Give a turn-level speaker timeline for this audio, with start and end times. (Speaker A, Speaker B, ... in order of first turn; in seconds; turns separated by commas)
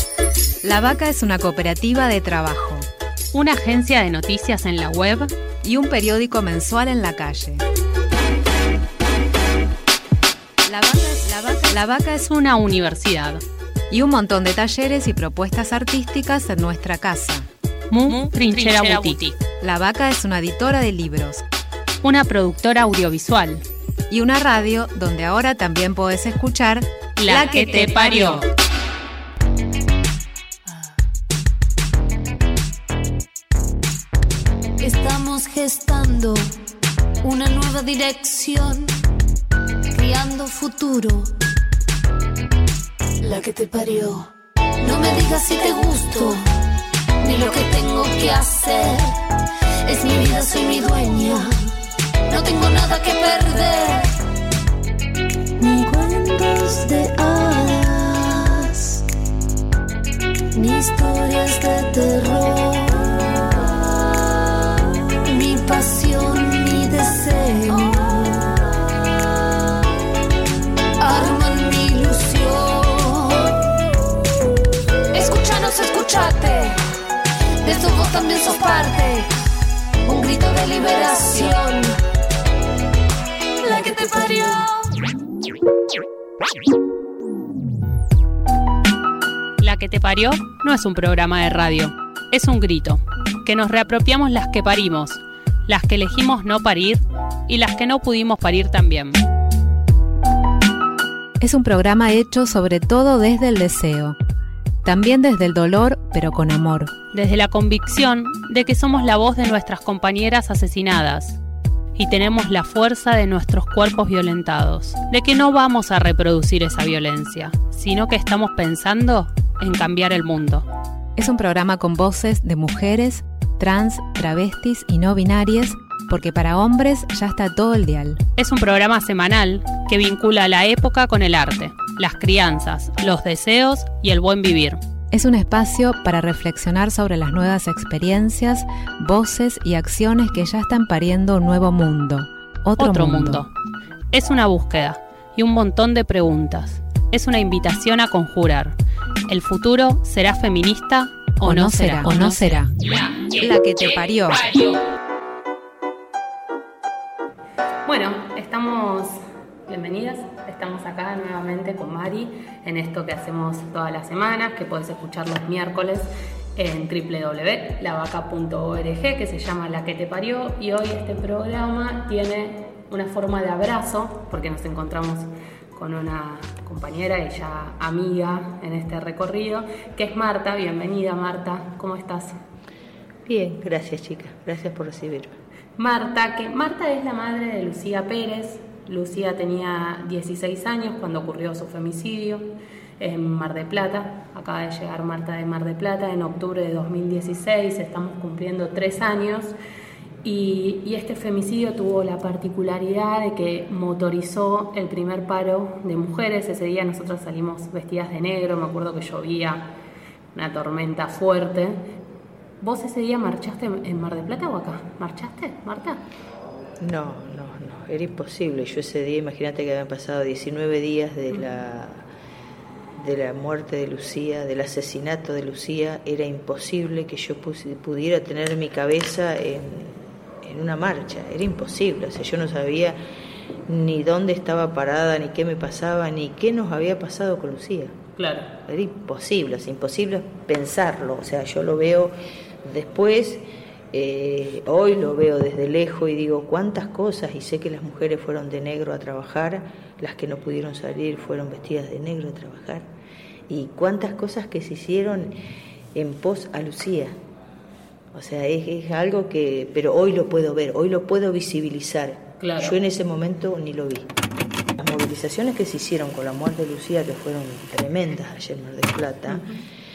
Speaker A: 0.6-2.9, Speaker B: 3.3-5.3, Speaker A: 5.6-7.6, Speaker A: 10.7-11.8, Speaker B: 11.7-13.4, Speaker A: 13.9-17.5, Speaker B: 17.9-19.4, Speaker A: 18.8-19.1, Speaker A: 19.6-21.4, Speaker B: 22.0-23.6, Speaker A: 24.1-28.4, Speaker B: 27.2-28.5, Speaker C: 34.8-36.5, Speaker C: 37.2-38.9, Speaker C: 39.9-41.3, Speaker C: 43.2-44.3, Speaker C: 44.8-46.5, Speaker C: 47.2-49.1, Speaker C: 49.8-51.5, Speaker C: 52.3-54.1, Speaker C: 55.6-59.0, Speaker C: 60.5-63.8, Speaker C: 65.2-68.6, Speaker C: 71.0-73.5, Speaker C: 75.1-76.8, Speaker C: 77.6-79.3, Speaker C: 80.0-82.0, Speaker C: 83.6-84.7, Speaker B: 89.6-99.2, Speaker A: 101.4-104.2, Speaker A: 104.8-106.9, Speaker B: 107.1-111.4, Speaker B: 112.0-120.7, Speaker A: 121.2-128.2, Speaker B: 128.4-134.8, Speaker A: 135.1-143.5, Speaker B: 142.8-143.5, Speaker B: 144.1-148.8, Speaker B: 149.3-154.8, Speaker A: 151.4-152.7, Speaker A: 153.4-154.4, Speaker B: 157.9-182.4, Speaker D: 183.3-185.4, Speaker B: 185.8-192.5, Speaker B: 193.0-199.5, Speaker B: 200.2-209.7, Speaker B: 210.3-211.8, Speaker B: 212.6-216.0, Speaker D: 216.8-222.1, Speaker D: 223.0-233.0, Speaker D: 233.7-237.9, Speaker B: 238.2-238.5, Speaker D: 238.7-252.9, Speaker D: 253.5-255.3, Speaker D: 255.9-257.2, Speaker D: 258.1-264.1, Speaker B: 262.4-262.8, Speaker D: 264.8-269.5, Speaker B: 269.3-269.6